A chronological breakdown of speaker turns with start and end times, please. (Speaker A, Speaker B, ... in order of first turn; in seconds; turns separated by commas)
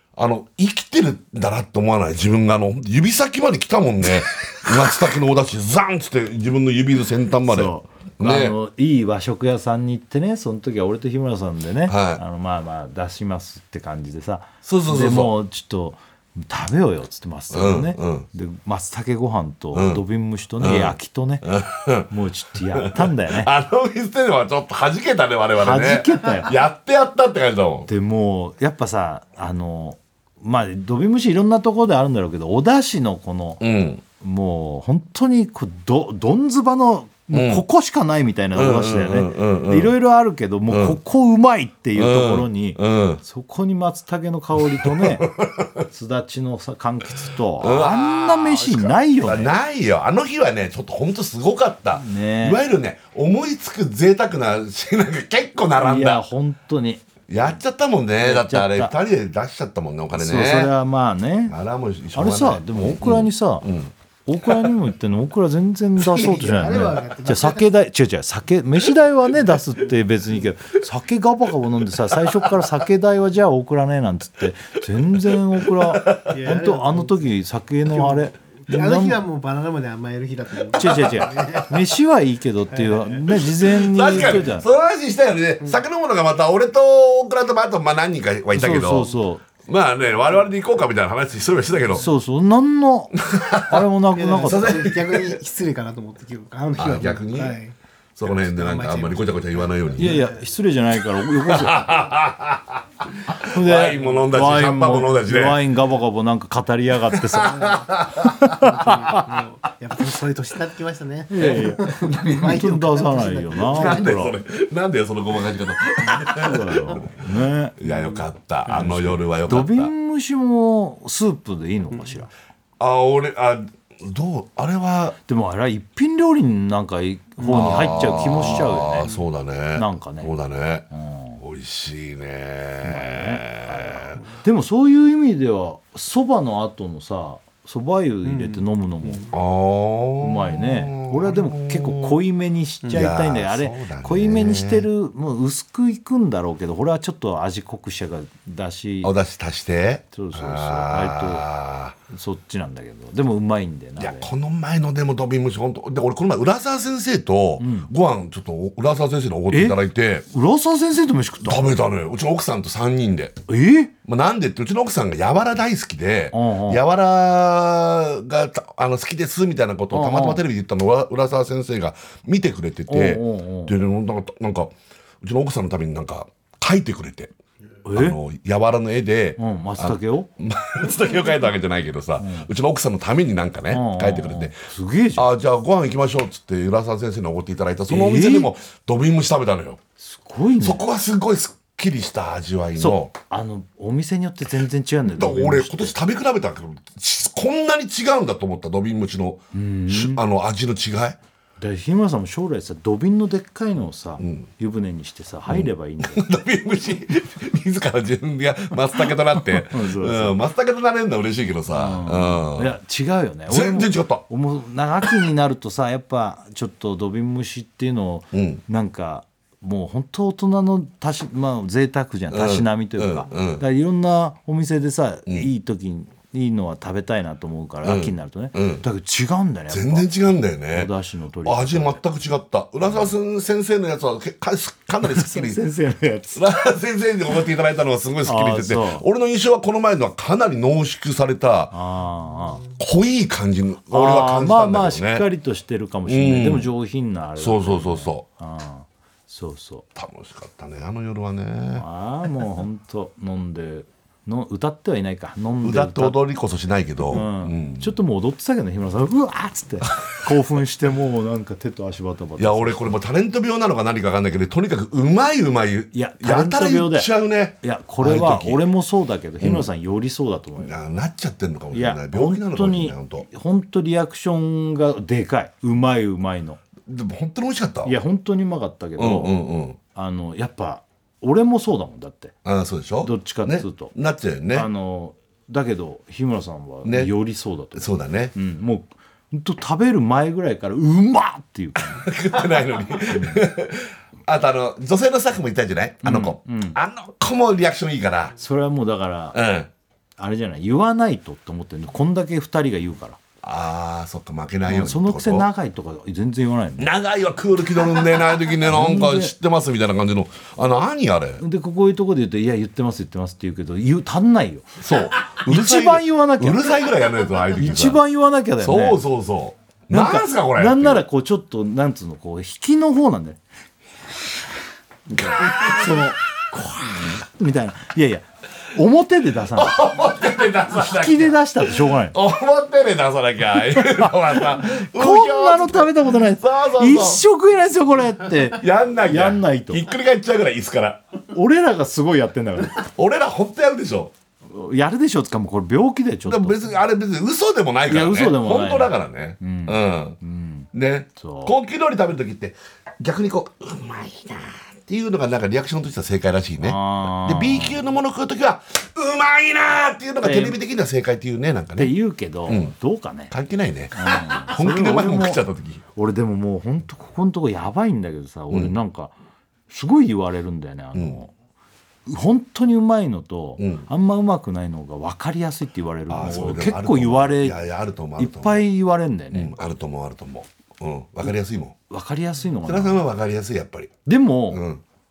Speaker A: 0.1-8.6, Speaker B: 7.5-21.5, Speaker A: 11.9-12.2, Speaker A: 14.6-15.3, Speaker A: 17.5-18.3, Speaker A: 19.7-20.0, Speaker A: 20.6-22.1, Speaker B: 22.1-23.5, Speaker A: 22.7-27.9, Speaker B: 25.6-26.5, Speaker B: 27.9-33.6, Speaker A: 33.6-34.0, Speaker B: 34.2-45.3, Speaker A: 37.3-37.6, Speaker A: 38.5-39.9, Speaker A: 40.7-41.0, Speaker A: 41.9-43.2, Speaker A: 44.8-45.9, Speaker B: 45.9-49.5, Speaker A: 47.6-56.2, Speaker B: 51.9-52.6, Speaker B: 55.8-57.0, Speaker A: 57.3-60.7, Speaker B: 58.2-58.9, Speaker B: 60.1-61.5, Speaker A: 61.5-64.7, Speaker B: 62.1-63.7, Speaker B: 64.2-79.2, Speaker C: 66.0-67.7, Speaker A: 72.2-72.6, Speaker A: 75.3-76.5, Speaker C: 76.3-77.3, Speaker C: 77.9-81.8, Speaker A: 80.7-81.7, Speaker B: 80.7-84.7, Speaker C: 82.7-83.2, Speaker A: 83.3-92.1, Speaker B: 88.5-89.4, Speaker B: 91.9-94.9, Speaker A: 93.2-93.8, Speaker C: 94.1-100.3, Speaker A: 94.4-95.4, Speaker A: 96.8-97.6, Speaker A: 98.2-100.3, Speaker B: 100.0-102.0, Speaker A: 101.3-105.6, Speaker B: 103.4-107.7, Speaker A: 107.1-108.8, Speaker C: 107.4-107.8, Speaker B: 108.2-109.2, Speaker C: 108.5-114.2, Speaker B: 111.3-114.4, Speaker A: 111.4-112.7, Speaker A: 113.6-119.9, Speaker B: 116.2-117.8, Speaker C: 117.8-118.1, Speaker B: 118.7-122.3, Speaker A: 122.8-125.2, Speaker B: 125.3-129.1, Speaker C: 127.4-128.5, Speaker A: 127.4-130.9, Speaker B: 129.7-130.3, Speaker B: 130.9-131.4, Speaker A: 131.4-134.2, Speaker B: 132.8-139.2, Speaker C: 138.2-139.3, Speaker A: 139.3-142.2, Speaker B: 140.2-149.1, Speaker A: 142.9-144.9, Speaker A: 149.0-152.0, Speaker B: 150.1-151.5, Speaker B: 152.1-154.3, Speaker A: 154.0-160.2, Speaker B: 157.6-157.9, Speaker B: 159.5-161.8, Speaker A: 161.4-163.4, Speaker B: 163.5-163.9, Speaker A: 164.0-177.3, Speaker B: 166.3-166.8, Speaker B: 169.9-170.4, Speaker B: 172.9-173.7, Speaker B: 177.8-178.2, Speaker A: 177.9-184.6, Speaker B: 179.4-180.3, Speaker B: 182.2-182.5, Speaker B: 183.7-185.3, Speaker A: 185.2-189.8, Speaker B: 187.9-188.5, Speaker B: 190.0-190.8, Speaker A: 190.6-193.1, Speaker B: 192.8-195.9, Speaker A: 195.2-201.2, Speaker B: 199.5-200.2, Speaker B: 201.6-206.2, Speaker A: 204.2-204.5, Speaker A: 205.5-212.7, Speaker B: 209.5-210.4, Speaker B: 211.7-230.1, Speaker A: 213.5-214.2, Speaker A: 218.3-218.6, Speaker A: 222.3-223.6, Speaker A: 227.8-228.8, Speaker A: 229.7-230.9, Speaker B: 230.7-232.0, Speaker A: 231.4-235.6, Speaker B: 235.0-236.4, Speaker A: 236.3-241.7, Speaker B: 238.2-239.0, Speaker B: 241.7-242.6, Speaker A: 242.8-245.2, Speaker B: 243.9-249.8, Speaker A: 246.1-246.7, Speaker A: 247.4-248.2, Speaker A: 249.9-251.8, Speaker B: 251.7-256.2, Speaker A: 255.6-257.9, Speaker B: 257.1-263.0, Speaker A: 262.4-268.6, Speaker B: 265.9-267.1, Speaker B: 267.6-270.7, Speaker A: 269.4-269.7, Speaker A: 270.6-273.2, Speaker B: 271.7-276.6, Speaker A: 276.9-277.9, Speaker B: 277.8-279.3, Speaker A: 279.0-279.8, Speaker B: 279.9-282.3, Speaker A: 282.4-284.7, Speaker B: 283.0-283.9, Speaker B: 284.5-292.1, Speaker A: 286.8-287.1, Speaker A: 287.7-288.3, Speaker A: 291.8-298.4, Speaker B: 293.1-293.5, Speaker B: 296.0-296.8, Speaker B: 298.4-299.4, Speaker A: 299.3-299.7, Speaker B: 300.2-303.2, Speaker A: 303.4-305.5, Speaker B: 304.7-306.9, Speaker A: 306.8-311.4, Speaker B: 308.6-309.3, Speaker B: 311.4-314.8, Speaker A: 314.8-318.0, Speaker B: 315.4-316.6, Speaker B: 317.6-319.0, Speaker A: 318.6-321.0, Speaker B: 319.9-323.4, Speaker A: 325.1-326.1, Speaker B: 325.2-329.8, Speaker A: 329.5-337.2, Speaker B: 330.7-332.1, Speaker B: 333.8-339.8, Speaker A: 338.5-341.0, Speaker B: 341.3-342.9, Speaker A: 342.9-344.1, Speaker B: 344.5-346.7, Speaker A: 346.2-350.2, Speaker B: 347.9-351.6, Speaker A: 350.7-361.9, Speaker B: 356.6-357.8, Speaker B: 360.2-360.6, Speaker B: 361.8-363.3, Speaker A: 362.5-362.7, Speaker A: 363.3-365.8, Speaker B: 363.9-365.4, Speaker B: 365.9-369.1, Speaker B: 369.7-371.3, Speaker A: 370.9-371.2, Speaker B: 372.1-377.6, Speaker A: 373.6-373.9, Speaker A: 376.1-378.7, Speaker B: 378.2-379.5, Speaker A: 379.3-381.8, Speaker B: 381.9-383.0, Speaker A: 382.6-384.8, Speaker B: 384.1-384.6